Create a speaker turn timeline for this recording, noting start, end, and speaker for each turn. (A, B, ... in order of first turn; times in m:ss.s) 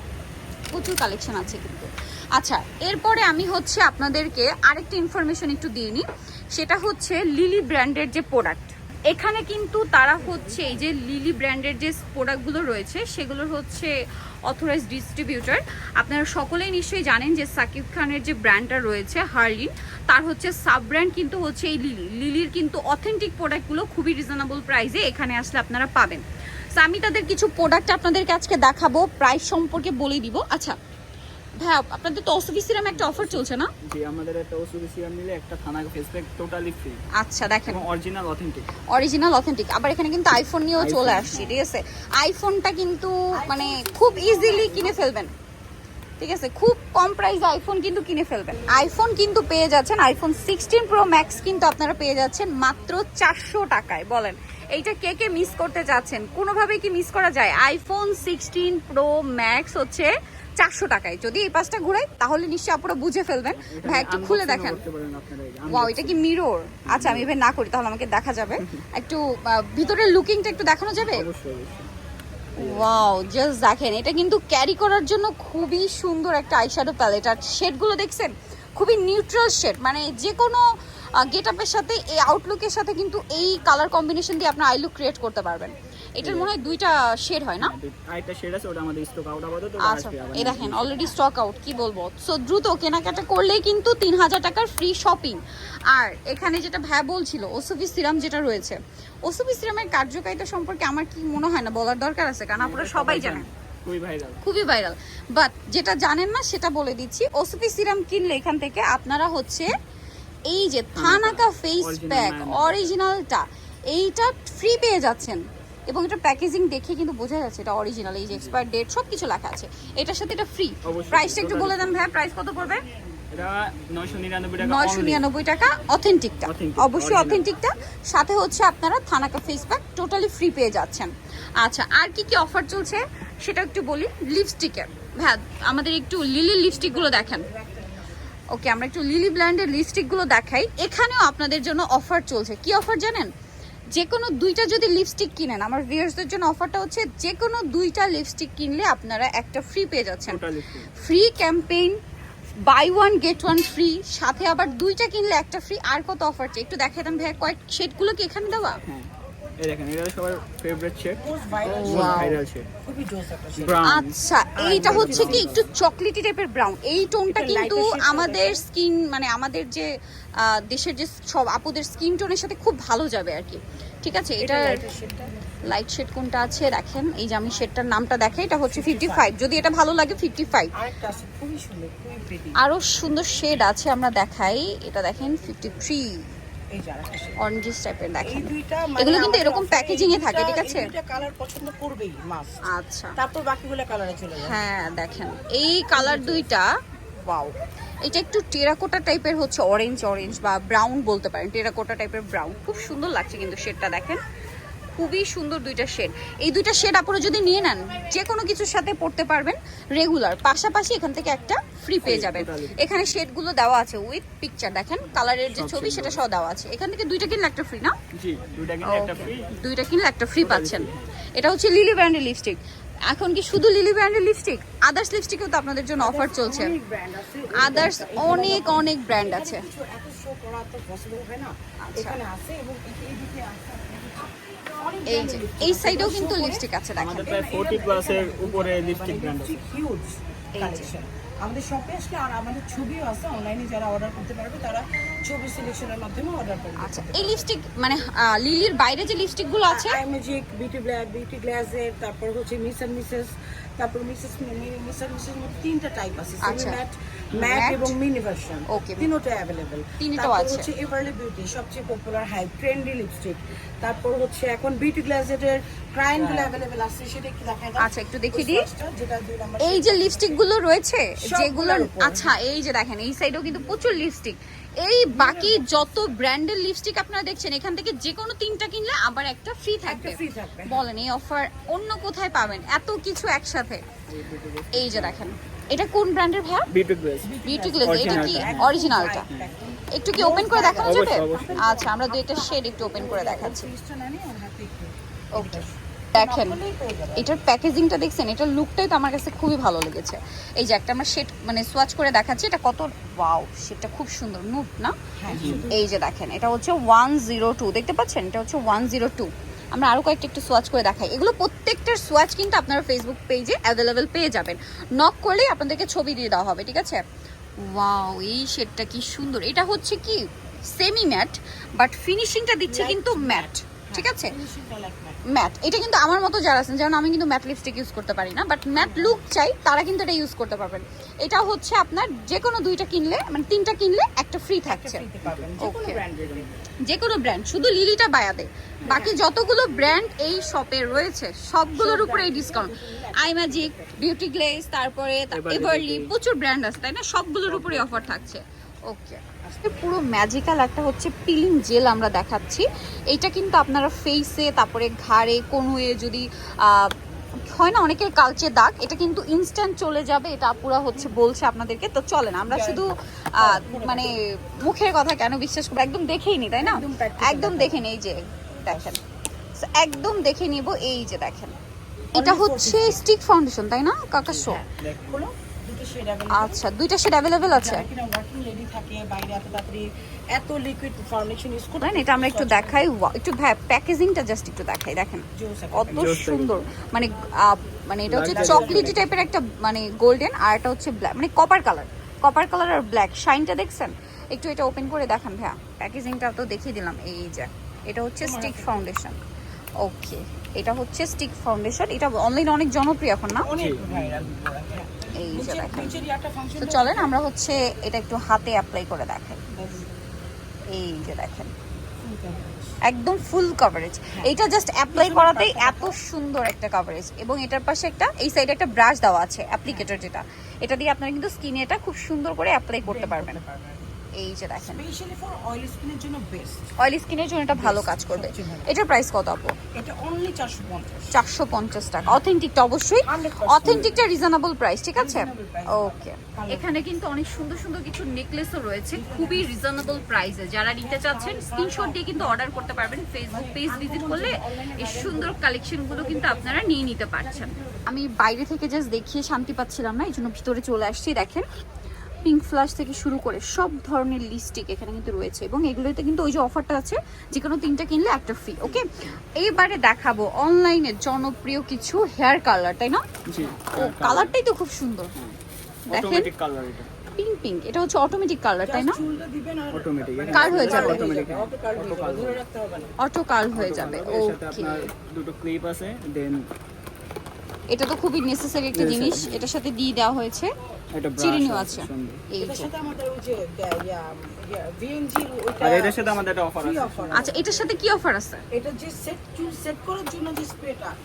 0:00.7-0:13.9 A
0:14.5-0:30.8 A
0:31.6-0:33.7 A
0:32.9-0:37.0 B
0:37.2-0:37.8 A
0:37.6-0:38.7 B
0:38.9-0:45.3 A
0:40.8-0:41.6 B
0:43.3-0:45.1 C
0:46.2-1:04.8 A
1:03.5-1:06.2 B
1:05.7-1:11.2 A
1:06.9-1:07.3 B
1:08.6-1:08.8 B
1:11.0-1:11.9 B
1:12.6-1:20.6 A
1:12.6-1:12.9 B
1:21.2-1:27.7 A
1:26.2-1:26.5 B
1:27.6-1:31.0 B
1:29.8-1:43.5 A
1:42.6-1:44.4 B
1:44.4-1:49.7 A
1:50.5-2:02.8 A
1:51.0-1:52.9 B
1:58.3-1:58.6 B
2:00.8-2:02.0 B
2:03.3-2:05.2 B
2:04.6-2:17.5 A
2:06.4-2:07.5 B
2:17.0-2:18.0 C
2:18.5-2:23.3 A
2:23.9-2:30.4 A
2:30.3-2:30.9 B
2:31.0-2:32.0 A
2:32.6-2:38.8 A
2:38.8-2:39.1 B
2:39.6-2:42.7 B
2:41.2-2:43.9 C
2:41.6-2:42.4 A
2:43.6-2:45.7 B
2:43.8-2:54.8 A
2:44.6-2:45.6 C
2:47.3-2:48.6 C
2:54.4-2:55.4 C
2:55.6-3:00.7 A
2:58.6-2:59.4 C
3:00.8-3:02.6 C
3:02.6-3:06.2 A
3:06.7-3:07.4 C
3:07.4-3:10.9 A
3:08.2-3:12.6 C
3:12.6-3:13.2 A
3:13.2-3:14.6 C
3:14.4-3:24.2 A
3:15.9-3:16.5 C
3:25.0-3:38.0 A
3:32.0-3:33.2 B
3:35.4-3:36.2 B
3:38.1-3:39.5 B
3:38.8-3:46.7 A
3:40.4-3:41.0 B
3:46.0-4:07.4 C
3:47.5-3:49.6 A
3:51.8-3:52.2 A
3:55.0-3:57.3 A
3:57.0-3:59.6 B
4:00.6-4:00.9 A
4:06.8-4:10.0 A
4:09.7-4:30.5 C
4:16.4-4:16.8 A
4:17.4-4:17.9 A
4:18.7-4:19.1 A
4:20.0-4:20.7 A
4:27.8-4:28.6 A
4:29.6-4:43.9 A
4:31.2-4:32.3 C
4:35.1-4:35.8 C
4:39.8-4:40.8 C
4:44.1-4:45.4 B
4:44.7-4:46.7 A
4:46.7-4:47.3 B
4:47.2-4:57.4 C
4:47.4-4:49.2 A
4:47.8-4:49.5 B
4:49.9-4:53.7 A
4:50.8-4:51.7 B
4:55.3-4:55.6 A
4:56.2-4:56.6 A
4:57.2-5:17.0 A
5:05.2-5:05.8 C
5:05.3-5:05.6 B
5:17.6-5:24.4 A
5:22.7-5:25.2 C
5:25.2-5:35.0 A
5:28.8-5:29.2 C
5:34.6-5:36.7 C
5:35.2-5:35.5 B
5:35.6-5:36.0 A
5:36.8-6:09.0 A
5:38.8-5:39.1 C
5:41.7-5:44.0 C
5:45.3-5:46.1 B
5:47.5-5:48.2 B
5:49.4-5:50.0 C
6:02.5-6:04.2 C
6:06.6-6:07.8 C
6:08.6-6:09.0 C
6:09.5-6:11.6 A
6:12.1-6:13.0 C
6:12.1-6:14.6 A
6:14.2-6:15.2 B
6:14.4-6:16.6 C
6:16.3-6:17.8 A
6:17.5-6:22.8 C
6:21.8-6:39.2 A
6:25.4-6:26.0 C
6:25.9-6:26.6 B
6:28.1-6:29.0 B
6:28.2-6:29.3 C
6:38.2-6:38.8 C
6:39.8-6:43.5 A
6:43.4-6:47.2 C
6:43.5-6:44.4 B
6:45.2-6:46.0 A
6:46.6-6:49.4 A
6:49.5-6:49.9 C
6:50.7-6:51.5 A
6:52.0-6:52.8 C
6:52.8-7:03.4 A
6:54.9-6:56.0 C
6:59.7-7:00.0 C
7:02.8-7:03.9 C
7:04.1-7:04.8 A
7:04.6-7:06.7 C
7:06.8-7:09.6 A
7:07.5-7:08.8 C
7:09.7-7:11.2 C
7:11.1-7:31.4 A
7:13.0-7:14.0 C
7:15.0-7:16.8 C
7:18.9-7:19.8 C
7:20.8-7:22.4 C
7:23.3-7:27.8 C
7:32.2-7:45.1 A
7:38.6-7:39.2 B
7:43.3-7:44.3 B
7:45.9-7:46.3 A
7:45.9-7:46.9 B
7:47.2-7:49.0 A
7:48.6-7:52.9 C
7:49.7-7:52.4 B
7:50.3-7:51.0 A
7:53.0-7:54.9 A
7:53.5-7:56.5 B
7:57.7-8:00.5 A
7:58.7-7:59.5 B
8:00.9-8:02.2 B
8:01.2-8:02.7 A
8:02.4-8:07.4 C
8:05.6-8:07.4 B
8:07.1-8:08.4 A
8:08.5-8:11.0 C